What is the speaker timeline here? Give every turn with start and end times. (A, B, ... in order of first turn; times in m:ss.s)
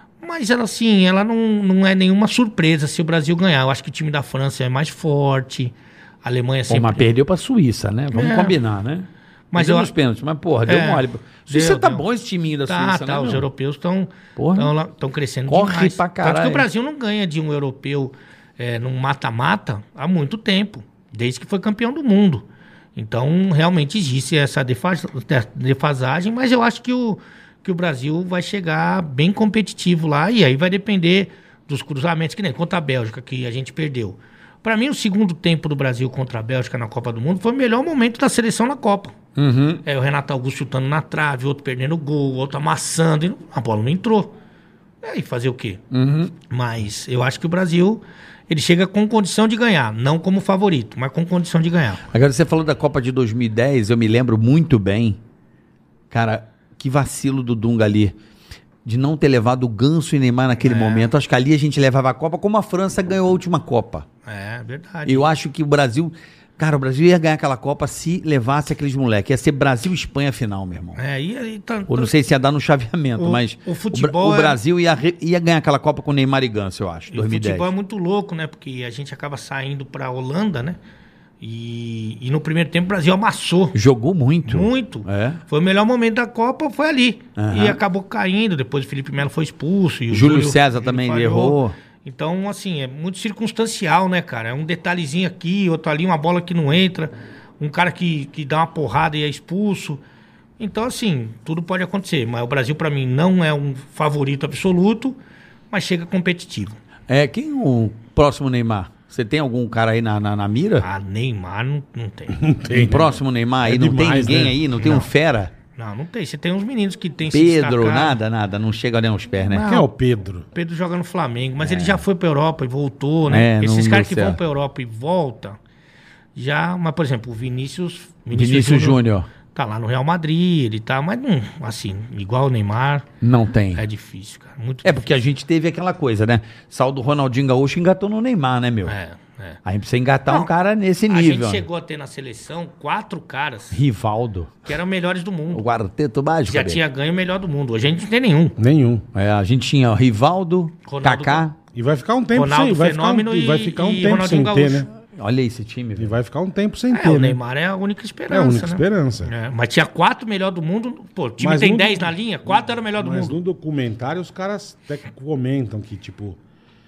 0:00.2-0:07.1 A
0:06.7-0:13.4 B
0:08.1-0:08.6 A
0:09.5-0:09.9 A
0:10.7-0:12.0 A
0:12.7-0:39.2 A
0:14.4-0:14.7 B
0:15.5-0:16.7 B
0:39.4-0:39.8 B
0:39.8-0:44.3 A
0:45.0-0:45.8 A
0:45.9-0:46.3 B
0:46.5-0:52.0 A
0:52.1-0:55.2 B
0:56.1-0:58.2 B
0:58.8-1:04.1 B
1:00.6-1:01.1 A
1:04.3-1:05.3 A
1:05.1-1:11.0 B
1:11.0-1:12.1 A
1:11.9-1:17.7 B
1:13.2-1:14.6 A
1:17.1-1:20.8 A
1:21.4-1:23.8 A
1:23.7-1:25.4 B
1:24.4-1:40.0 A
1:27.4-1:27.8 B
1:30.1-1:31.8 B
1:40.6-1:45.2 A
1:45.7-1:46.8 A
1:47.1-1:50.9 B
1:50.8-1:52.5 A
1:52.4-1:54.6 C
1:52.7-1:55.5 B
1:54.8-1:55.1 A
1:55.8-1:58.2 A
1:57.3-1:59.7 B
1:59.5-1:59.9 A
1:59.6-2:00.4 C
2:00.5-2:05.6 A
2:01.6-2:02.0 B
2:03.3-2:04.4 B
2:06.4-2:13.1 A
2:08.3-2:09.3 B
2:13.2-2:13.8 B
2:13.7-2:15.2 A
2:14.8-2:19.0 B
2:18.9-2:19.6 A
2:19.6-2:21.6 B
2:21.1-2:23.8 A
2:23.7-2:24.6 B
2:24.6-2:25.6 A
2:25.5-2:26.8 B
2:26.5-2:28.6 A
2:28.6-2:29.0 C
2:29.1-2:31.6 B
2:30.8-2:31.4 A
2:31.7-2:34.9 C
2:32.3-2:34.9 A
2:35.2-2:36.2 B
2:36.0-2:37.4 C
2:36.9-2:43.4 A
2:38.3-2:39.3 C
2:41.4-2:46.4 C